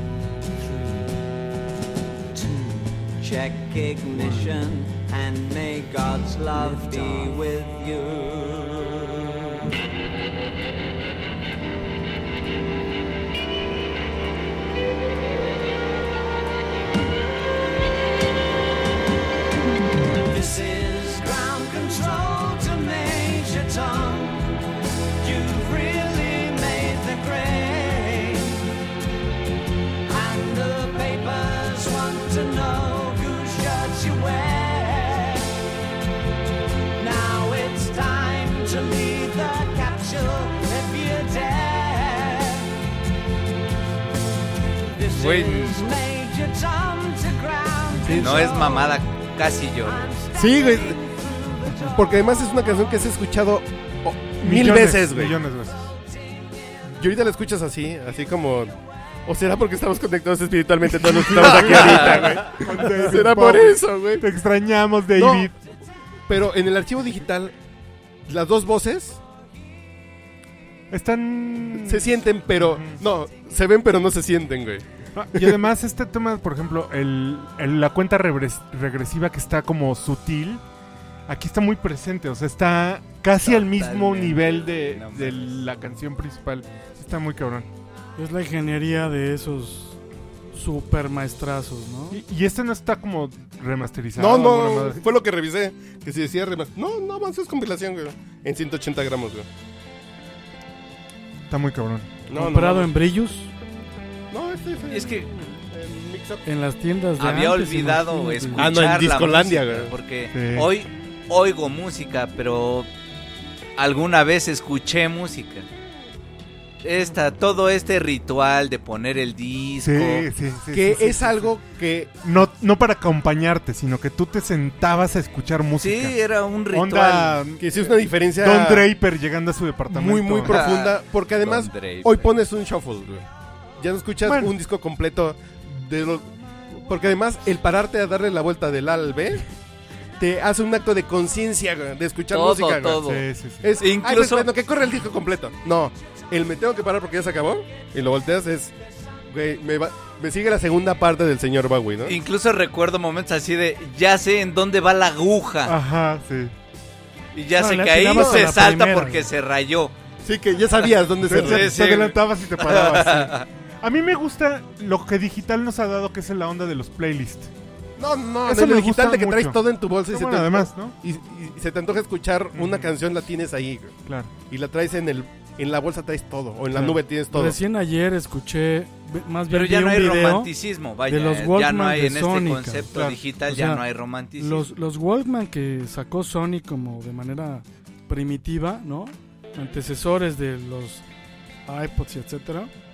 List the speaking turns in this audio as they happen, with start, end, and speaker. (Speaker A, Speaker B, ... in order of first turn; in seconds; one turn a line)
Speaker A: 0.6-1.1
Speaker A: 2.3-9.3
Speaker B: 6.8-7.2
Speaker A: 20.2-24.6
Speaker A: 25.2-28.7
Speaker A: 30.1-35.5
Speaker A: 37.0-42.7
Speaker A: 44.9-49.1
Speaker B: 45.1-45.9
Speaker B: 48.1-50.1
Speaker A: 49.8-52.2
Speaker C: 50.3-51.0
Speaker C: 51.9-55.4
Speaker D: 54.4-55.9
Speaker C: 56.9-64.3
Speaker D: 60.9-65.5
Speaker B: 61.4-62.4
Speaker C: 65.1-65.5
Speaker C: 66.3-67.5
Speaker C: 68.3-69.2
Speaker D: 70.9-73.0
Speaker C: 71.8-75.6
Speaker D: 75.2-80.6
Speaker D: 81.3-87.7
Speaker B: 83.4-85.6
Speaker E: 88.2-90.0
Speaker E: 90.5-92.2
Speaker D: 92.1-95.0
Speaker C: 94.2-99.5
Speaker D: 101.5-102.1
Speaker C: 102.3-102.9
Speaker E: 102.3-103.5
Speaker C: 104.3-106.4
Speaker B: 104.9-105.3
Speaker E: 106.4-108.7
Speaker B: 107.2-112.9
Speaker C: 108.5-109.9
Speaker D: 110.3-110.7
Speaker B: 113.8-115.7
Speaker B: 116.8-120.3
Speaker D: 119.8-121.5
Speaker C: 120.7-122.2
Speaker D: 122.2-126.1
Speaker B: 125.8-127.4
Speaker D: 126.7-127.7
Speaker C: 127.6-128.9
Speaker D: 128.4-130.7
Speaker C: 129.9-133.2
Speaker B: 130.4-132.3
Speaker C: 133.8-139.4
Speaker D: 134.2-134.5
Speaker C: 140.2-143.0
Speaker B: 142.3-143.3
Speaker D: 143.0-143.7
Speaker C: 143.6-148.7
Speaker B: 143.8-144.5
Speaker C: 149.3-152.2
Speaker B: 152.1-155.8
Speaker D: 155.7-156.5
Speaker B: 157.3-159.9
Speaker E: 157.6-159.3
Speaker C: 158.1-158.5
Speaker C: 160.2-161.8
Speaker D: 161.2-167.5
Speaker B: 161.3-163.5
Speaker C: 168.0-174.0
Speaker D: 168.4-170.9
Speaker D: 172.5-172.9
Speaker D: 174.1-174.3
Speaker C: 174.5-177.6
Speaker E: 177.3-180.5
Speaker B: 179.5-184.7
Speaker E: 181.1-182.9
Speaker E: 183.5-183.8
Speaker E: 184.4-191.0
Speaker E: 191.7-192.7